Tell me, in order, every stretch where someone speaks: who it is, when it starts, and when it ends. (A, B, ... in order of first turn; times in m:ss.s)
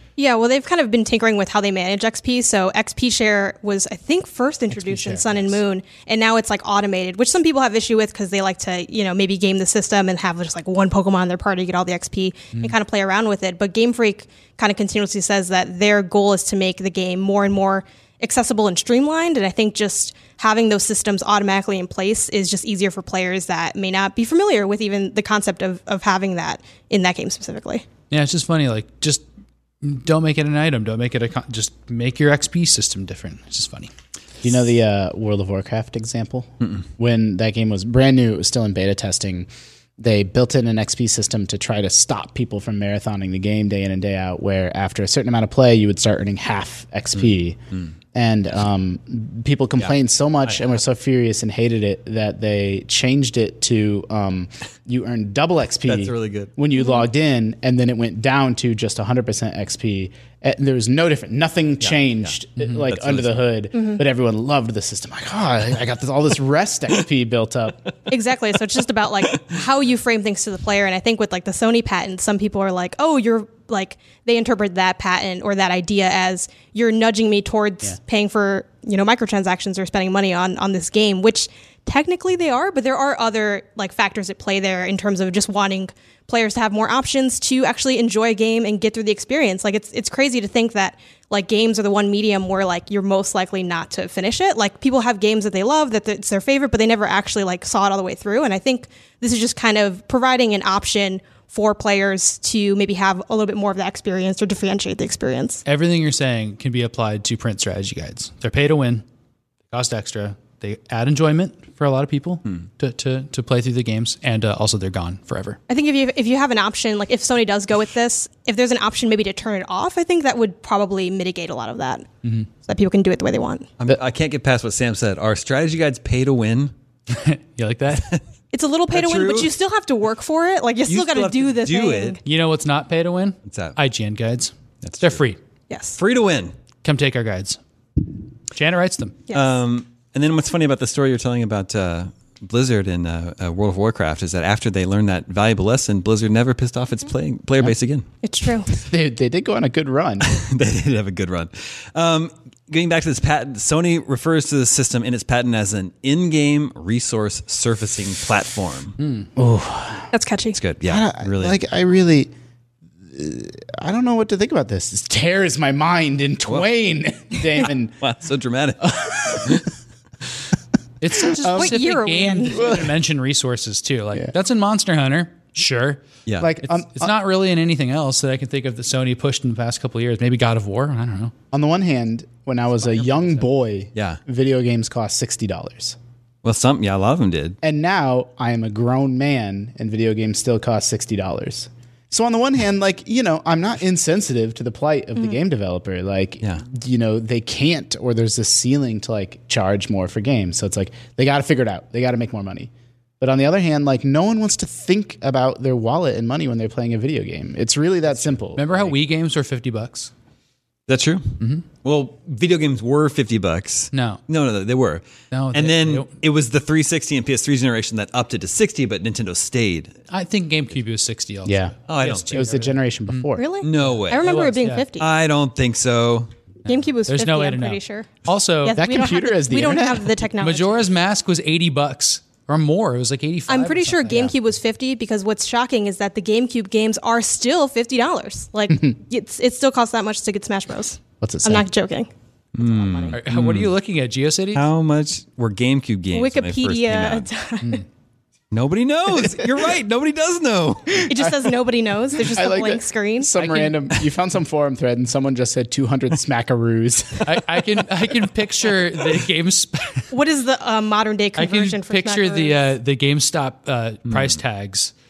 0:00.2-0:27.8 A
0:04.8-0:05.4 B
0:28.1-0:29.2 B
0:29.8-0:33.9 B
0:34.4-0:39.5 C
0:40.0-0:47.6 C
0:48.1-1:07.8 C
0:55.9-0:56.5 D
0:56.8-0:57.0 A
1:01.8-1:02.4 D
1:02.9-1:03.4 D
1:03.7-1:04.0 A
1:08.1-1:45.6 A
1:45.6-1:49.0 B
1:49.7-1:55.6 B
1:55.7-2:02.1 A
2:02.6-2:03.7 A
2:03.8-2:06.7 D
2:07.1-2:08.2 B
2:08.0-2:08.2 D
2:08.5-2:12.2 A
2:08.9-2:09.5 D
2:10.9-2:12.2 D
2:12.2-2:15.4 B
2:13.4-2:13.8 D
2:14.8-2:15.2 D
2:15.7-2:16.0 A
2:16.0-2:16.5 D
2:16.8-2:17.6 B
2:18.5-2:19.2 B
2:19.3-2:19.5 A
2:19.3-2:28.0 D
2:28.2-2:28.7 A
2:28.8-2:30.3 C
2:30.3-2:39.0 D
2:39.0-2:39.3 B
2:39.4-2:40.1 C
2:40.1-2:40.6 A
2:40.5-2:41.6 D
2:40.8-2:42.3 C
2:43.1-2:47.9 C
2:48.0-2:49.7 D
2:48.8-2:49.6 C
2:51.0-2:56.0 B
2:51.4-2:52.7 A
2:51.4-2:51.7 C
2:52.5-2:52.9 C
2:56.4-2:57.1 C
2:56.6-3:01.3 B
3:01.5-3:06.0 C
3:02.8-3:03.4 B
3:03.9-3:04.2 D
3:06.4-3:07.6 D
3:07.6-3:29.0 C
3:28.6-3:30.1 B
3:30.9-3:40.0 D
3:33.9-3:34.2 B
3:35.3-3:36.1 B
3:40.1-3:43.3 B
3:41.4-3:43.5 C
3:41.9-3:42.4 D
3:43.3-3:45.1 A
3:43.6-3:44.3 D
3:44.1-3:44.8 B
3:45.0-3:46.3 D
3:46.6-3:50.9 A
3:47.1-3:48.8 B
3:48.8-3:50.2 C
3:50.4-3:54.3 B
3:53.5-4:02.1 A
4:01.2-4:01.7 C
4:02.5-4:03.7 D
4:02.6-4:03.2 A
4:03.1-4:04.6 B
4:04.5-4:07.3 D
4:06.1-4:07.8 A
4:08.5-4:11.1 D
4:11.1-4:13.4 A
4:12.2-4:17.8 C
4:13.4-4:13.7 B
4:17.2-4:20.1 B
4:20.1-4:22.7 A
4:21.4-4:24.9 B